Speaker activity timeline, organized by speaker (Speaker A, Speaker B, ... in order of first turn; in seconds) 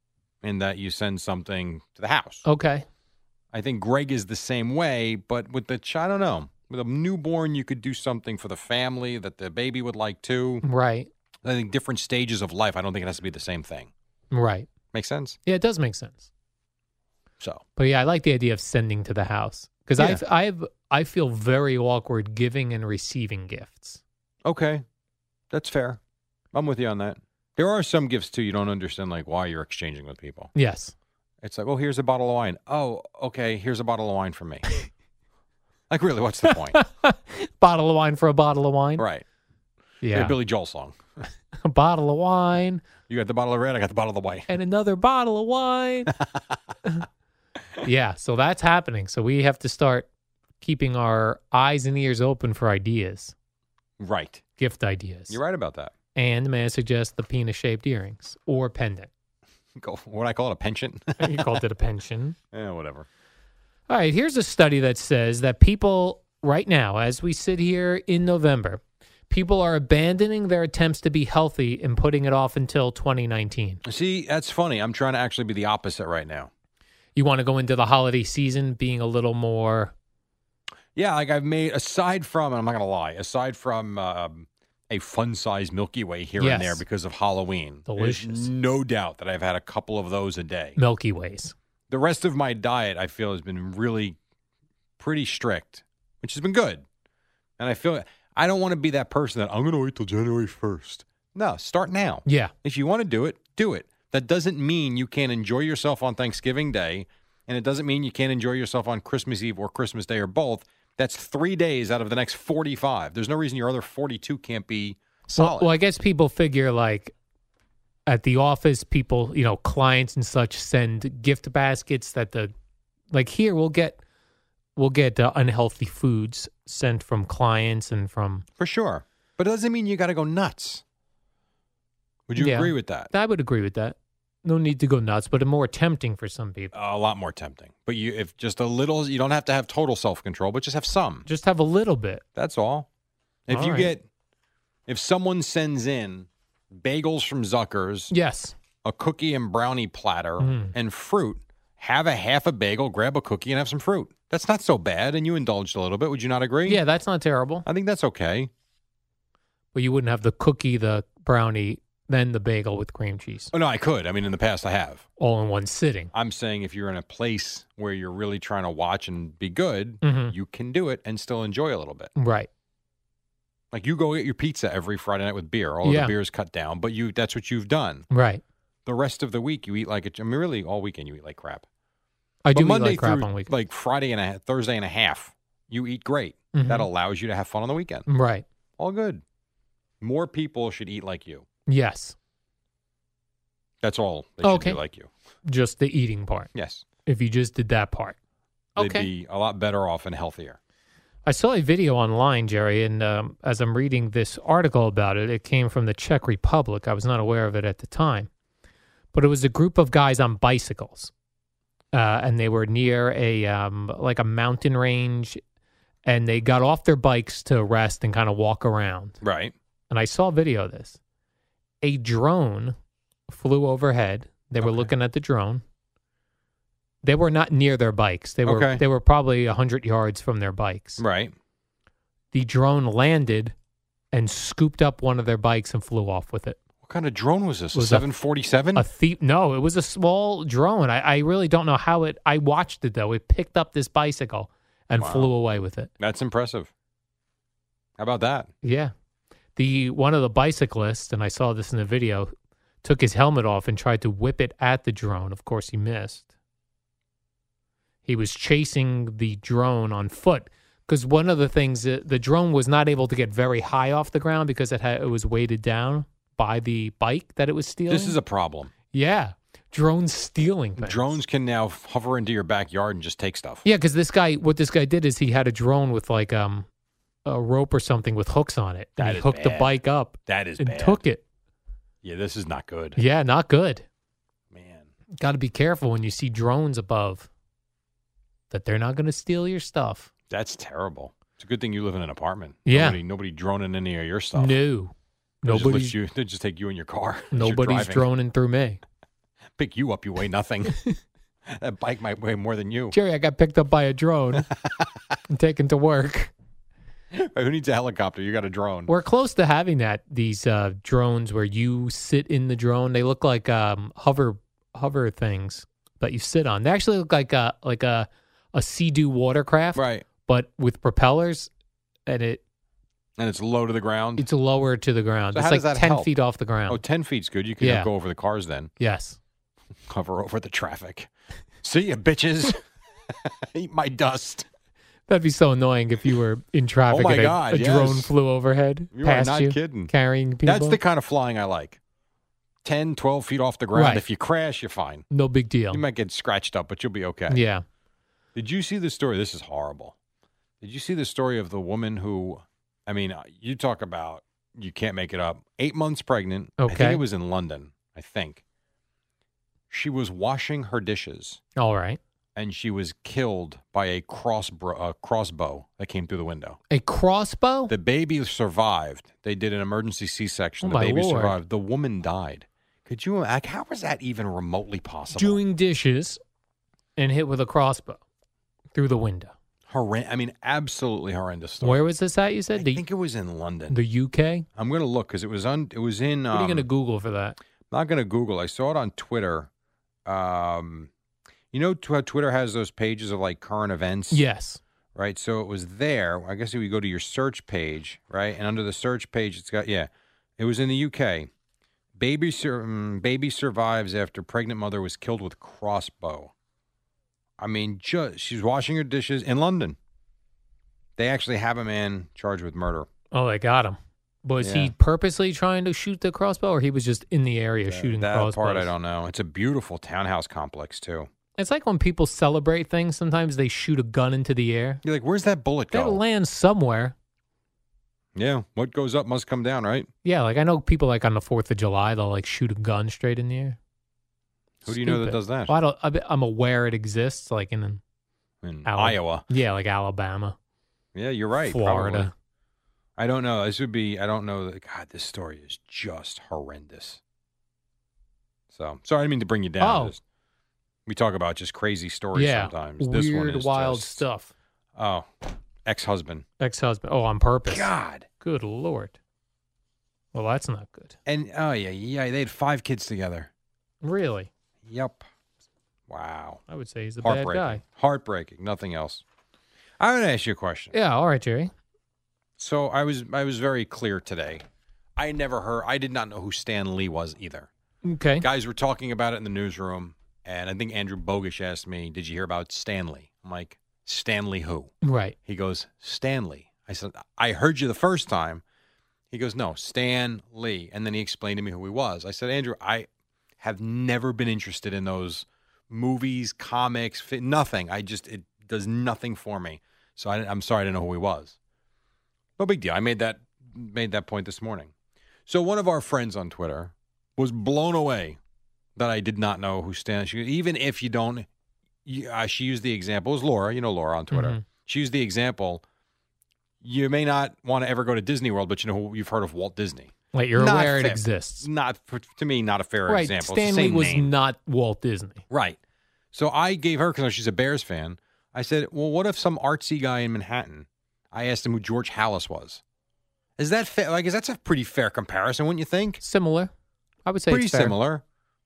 Speaker A: 0.4-2.4, 3.5-10.6, 11.4-13.9, 14.9-15.4, 24.4-24.8, 25.5-26.0, 26.5-30.5, 31.4-34.6, 35.9-36.8, 39.0-39.2, 40.1-41.0, 43.1-44.5, 46.1-46.4, 54.0-54.4, 55.3-55.9, 59.8-61.6, 62.5-63.0, 73.8-76.5, 81.0-90.8, 91.9-94.2, 95.0-96.8, 97.6-115.7, 128.6-130.8, 132.3-133.1, 136.7-141.2, 142.3-142.9, 143.5-144.0, 144.9-148.1, 148.8-156.8, 157.7-158.5, 163.5-165.0, 166.1-172.1, 173.7-178.1, 178.8-181.6, 182.5-188.1, 188.8-189.2, 190.0-191.4, 193.8-195.1, 196.5-196.8, 198.8-200.6, 219.2-219.5, 224.6-224.9, 228.4-228.8, 231.0-231.3, 236.8-238.8, 245.0-245.3, 246.0-246.7, 248.0-248.5, 267.9-268.7, 270.8-273.6, 279.0-279.7, 280.2-281.0, 282.0-283.0, 284.5-284.9, 290.3-294.6, 295.5-298.1, 299.6-300.8, 301.5-303.0, 307.1-308.9, 319.7-320.1, 323.2-324.2, 325.3-326.1, 326.7-328.7, 329.9-331.1, 331.6-334.5, 336.9-338.1, 338.9-339.9, 340.4-341.8, 342.6-345.0, 345.7-347.4, 348.3-349.9, 350.6-358.4, 359.7-361.4, 362.4-366.6, 367.7-375.4, 379.7-381.8, 382.5-383.8, 384.6-386.6, 387.7-389.5, 390.1-390.9, 391.5-394.2, 394.9-401.3, 402.0-406.3, 407.4-409.8, 411.0-412.9, 414.4-414.7, 417.7-421.1, 424.8-426.0, 428.1-429.9, 434.6-435.5, 438.4-439.2, 440.9-442.1, 443.0-447.0, 448.5-450.0, 450.9-454.0, 454.8-455.1, 455.6-456.2, 457.5-458.1, 461.1-463.3, 464.6-465.0, 465.9-466.4, 467.0-469.0, 469.8-470.7, 472.4-474.4, 475.0-477.5, 478.2-484.7, 485.2-488.4, 489.1-492.9, 493.4-501.4, 502.4-504.7, 505.3-508.2, 508.8-511.2, 511.9-515.6, 516.6-524.1, 525.3-525.6, 526.1-532.6, 533.4-536.0, 537.3-538.0
Speaker B: 2.4-2.9, 10.6-11.1, 14.3-14.7, 15.4-16.3, 17.8-24.0, 30.5-30.9, 36.5-39.0, 40.0-40.3, 41.6-42.8, 44.5-46.1, 47.8-50.1, 50.6-53.3, 54.6-55.4, 56.1-59.1, 61.2-62.4, 63.9-73.8, 77.2-79.9, 86.4-86.8, 87.9-88.5, 90.8-91.5, 102.2-102.5, 115.3-117.1, 118.1-122.5, 123.1-124.0, 124.8-128.4, 132.4-136.7, 141.2-142.2, 143.5-143.9, 148.1-148.5, 150.4-150.7, 156.7-157.7, 159.7-163.5, 165.2-166.1, 170.0-170.3, 172.2-172.5, 175.8-176.1, 178.1-178.4, 182.4-183.5, 186.5-186.9, 188.1-188.4, 191.7-192.1, 194.4-194.8, 195.4-196.5, 197.1-198.2, 198.8-199.1, 201.2-208.3, 209.1-211.1, 211.9-215.4, 216.0-219.2, 219.9-221.0, 221.8-222.8, 223.3-225.6, 227.0-231.0, 232.3-233.5, 234.1-236.6, 237.7-238.1, 238.7-245.9, 248.6-248.9, 249.6-256.3, 258.0-268.2, 268.9-271.0, 273.6-276.7, 277.2-281.2, 283.0-283.9, 285.2-287.3, 288.5-290.1, 292.6-293.0, 294.4-295.9, 297.3-298.8, 302.9-304.5, 305.3-306.3, 308.9-321.5, 322.1-322.4, 324.2-326.8, 327.6-327.9, 328.8-329.2, 335.1-340.8, 343.7-344.0, 345.1-345.8, 347.3-347.6, 356.6-357.0, 361.6-362.0, 366.7-367.7, 370.6-371.4, 375.1-376.2, 377.0-378.0, 378.7-379.3, 381.6-382.8, 383.7-384.4, 386.3-387.4, 394.1-394.6, 413.1-418.7, 421.4-424.8, 425.7-426.9, 430.0-433.6, 434.7-437.8, 438.6-440.4, 441.4-442.1, 449.6-449.9, 452.1-454.3, 456.4-457.7, 458.2-458.9, 460.1-460.9, 463.8-464.3, 466.5-467.6, 470.7-471.5, 477.9-478.2, 484.8-485.1, 514.1-514.4, 520.1-521.5, 522.9-525.2, 536.0-536.5, 537.0-537.7